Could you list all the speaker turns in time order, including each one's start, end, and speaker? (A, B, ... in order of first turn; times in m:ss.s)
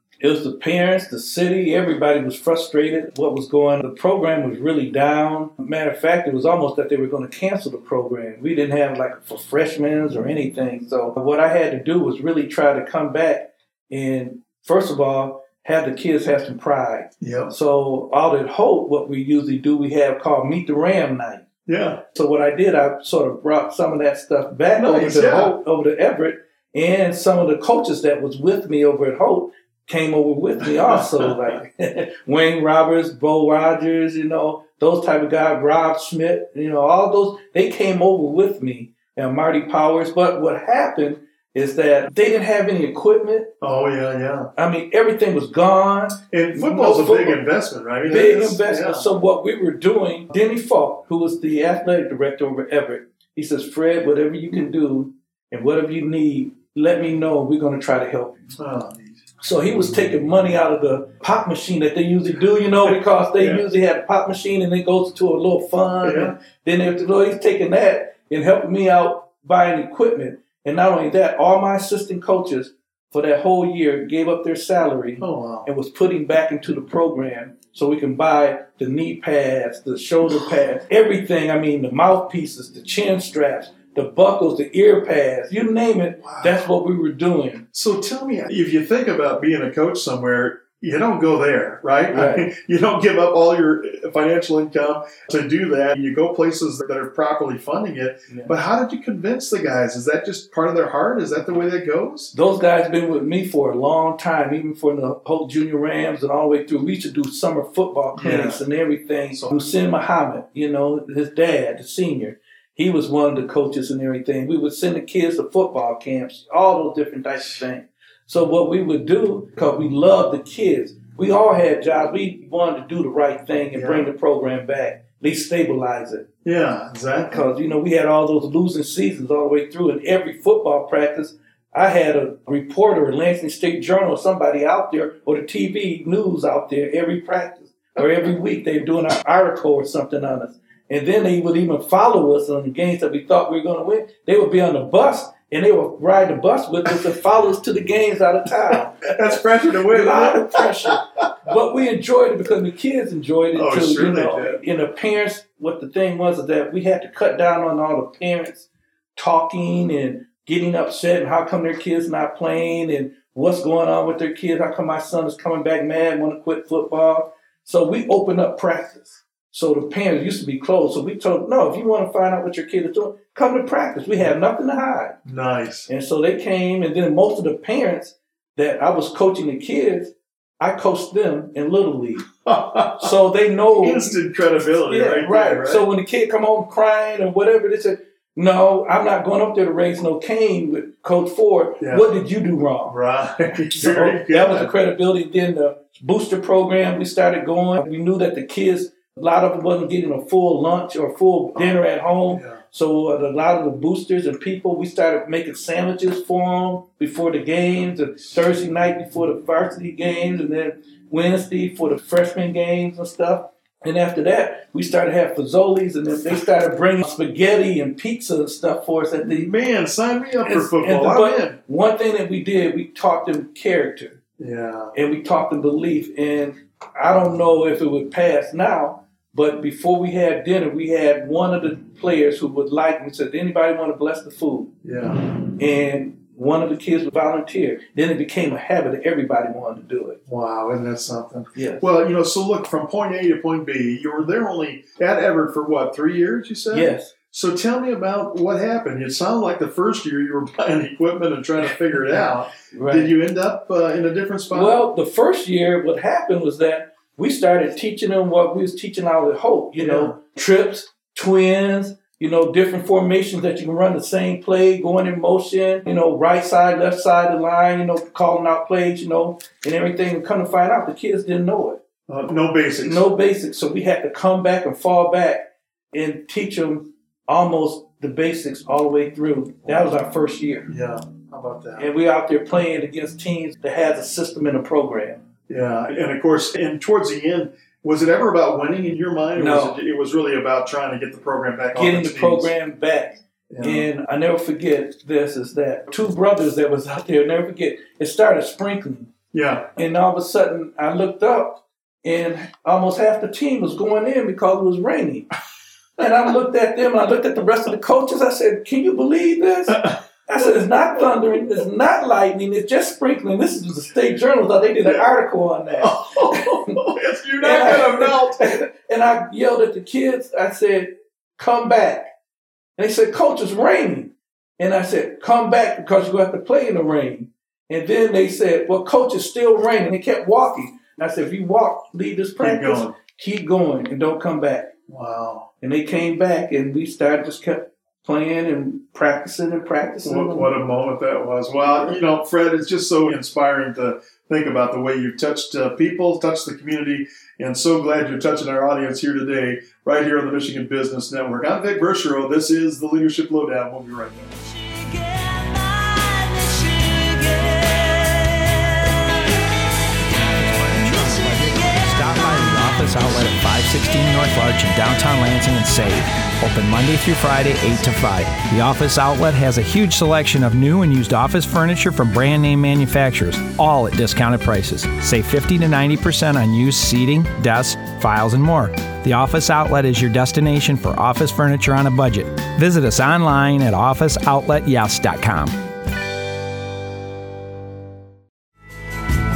0:00.2-0:21.4 A
0:17.2-0:17.5 B
0:21.7-0:22.0 B
0:22.1-0:43.5 A
0:24.8-0:25.6 B
0:30.6-0:31.5 B
0:43.6-0:44.5 B
0:44.6-0:47.4 A
0:46.3-0:49.1 B
0:48.1-0:58.6 A
0:58.6-0:59.2 B
0:59.4-1:27.6 A
1:03.4-1:03.6 B
1:06.0-1:06.4 B
1:15.2-1:15.7 B
1:26.2-1:26.7 B
1:27.7-1:42.3 B
1:32.1-1:32.5 A
1:38.3-1:38.6 A
1:42.3-2:06.2 A
1:48.1-1:48.6 B
2:03.7-2:04.1 B
2:06.4-2:07.5 B
2:07.3-2:29.2 A
2:18.0-2:18.3 B
2:29.1-2:31.0 B
2:29.9-2:55.2 A
2:33.6-2:34.6 B
2:55.2-2:55.9 B
2:55.9-3:02.3 A
3:02.5-3:03.1 B
3:02.9-3:04.2 A
3:03.8-3:05.9 B
3:04.8-3:13.0 A
3:11.8-3:12.1 B
3:12.9-3:14.8 B
3:13.7-3:39.5 A
3:21.6-3:22.6 B
3:39.2-3:41.6 B
3:40.4-3:44.2 A
3:44.4-3:44.9 B
3:44.9-3:54.7 A
3:54.8-3:55.3 B
3:55.5-4:00.2 A
4:00.3-4:14.8 B
4:01.6-4:01.9 A
4:06.7-4:07.1 A
4:12.0-4:13.1 A
4:14.5-4:31.8 A
4:19.8-4:20.2 B
4:32.1-4:33.1 B
4:32.8-4:40.7 A
4:40.7-4:41.9 B
4:41.8-4:45.2 A
4:45.5-4:52.5 B
4:49.4-4:49.8 A
4:51.8-4:59.1 A
4:53.5-4:53.9 B
4:59.3-4:59.7 B
4:59.8-5:05.3 A
5:06.0-5:16.8 A
5:09.7-5:10.0 B
5:15.8-5:18.6 B
5:17.4-5:22.1 A
5:22.8-5:34.7 A
5:32.4-5:33.0 B
5:34.9-5:35.5 B
5:35.6-5:40.5 A
5:40.0-5:54.4 B
6:00.0-6:25.6 C